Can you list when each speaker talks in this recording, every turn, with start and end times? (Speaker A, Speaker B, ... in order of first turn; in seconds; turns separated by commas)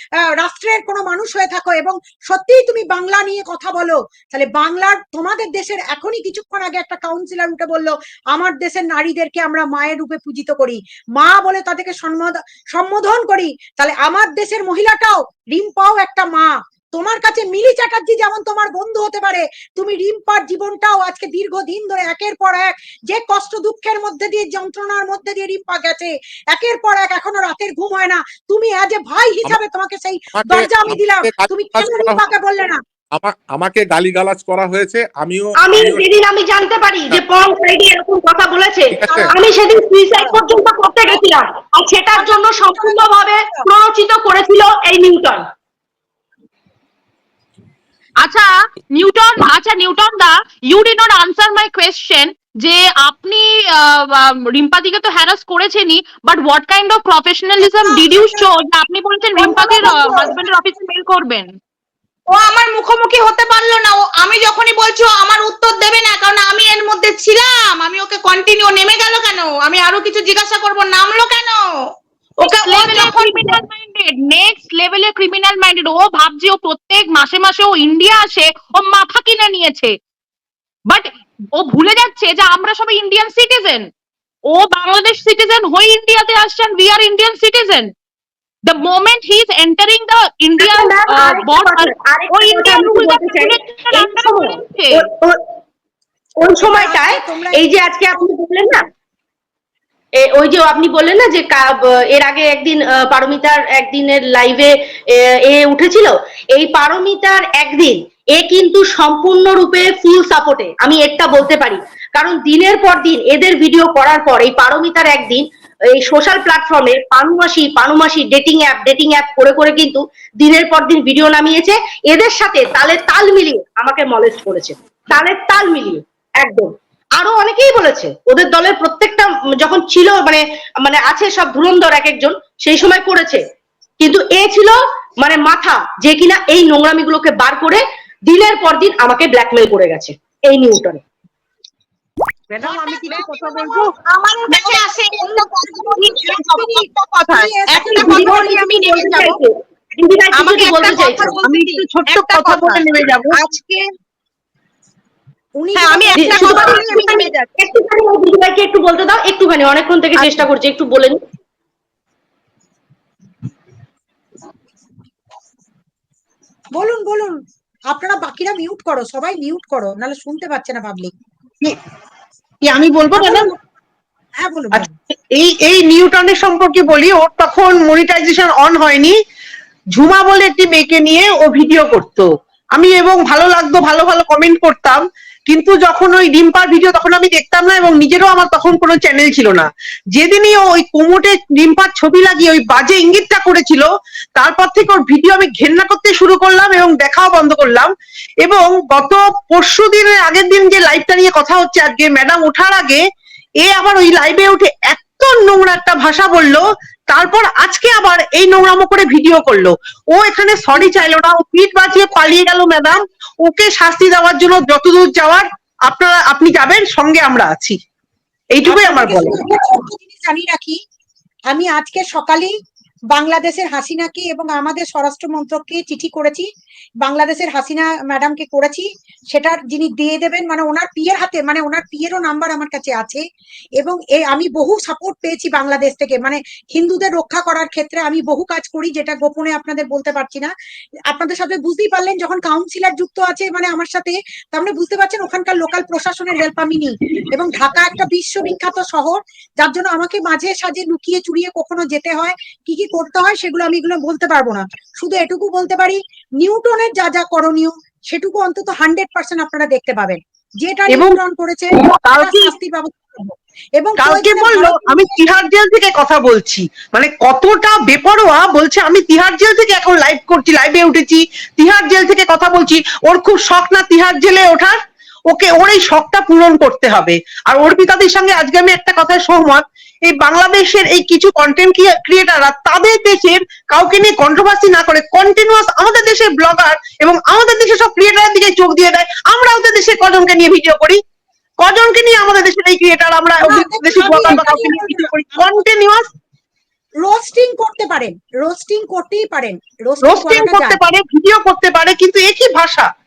Speaker A: 0.4-32.8, Speaker B: 30.4-32.3, Speaker B: 33.1-36.0, Speaker C: 35.6-45.4, Speaker B: 38.9-39.3, Speaker A: 39.0-39.3, Speaker A: 40.1-40.4, Speaker A: 42.1-43.6, Speaker D: 48.2-61.5, Speaker A: 57.8-58.4, Speaker A: 59.4-60.3, Speaker E: 59.5-60.1, Speaker E: 62.3-71.8, Speaker E: 72.4-73.5, Speaker D: 72.4-79.9, Speaker D: 80.9-83.8, Speaker D: 84.5-87.9, Speaker D: 88.7-95.0, Speaker C: 90.6-95.4, Speaker C: 96.4-98.8, Speaker A: 96.6-97.6, Speaker C: 100.2-133.4, Speaker C: 134.0-141.0, Speaker E: 142.6-143.9, Speaker F: 142.6-143.8, Speaker A: 142.6-143.6, Speaker A: 144.2-148.7, Speaker E: 144.4-149.4, Speaker C: 147.8-151.4, Speaker E: 150.3-153.9, Speaker F: 151.2-153.4, Speaker A: 155.6-157.2, Speaker E: 155.8-157.5, Speaker C: 156.2-161.2, Speaker A: 166.8-167.3, Speaker A: 167.9-171.1, Speaker F: 172.6-173.5, Speaker A: 173.1-173.6, Speaker A: 174.4-174.9, Speaker F: 175.4-179.2, Speaker F: 179.9-197.9, Speaker F: 198.4-203.0, Speaker F: 203.6-217.8, Speaker F: 218.5-219.4, Speaker A: 218.6-220.8, Speaker A: 221.5-222.5, Speaker A: 223.1-226.4, Speaker A: 227.0-233.2, Speaker A: 233.8-240.5, Speaker A: 241.1-265.2, Speaker F: 260.9-261.2, Speaker F: 261.8-262.5, Speaker F: 264.0-274.8, Speaker F: 275.3-291.0, Speaker F: 291.6-296.1, Speaker A: 293.4-295.4, Speaker A: 297.0-300.8, Speaker F: 300.0-302.9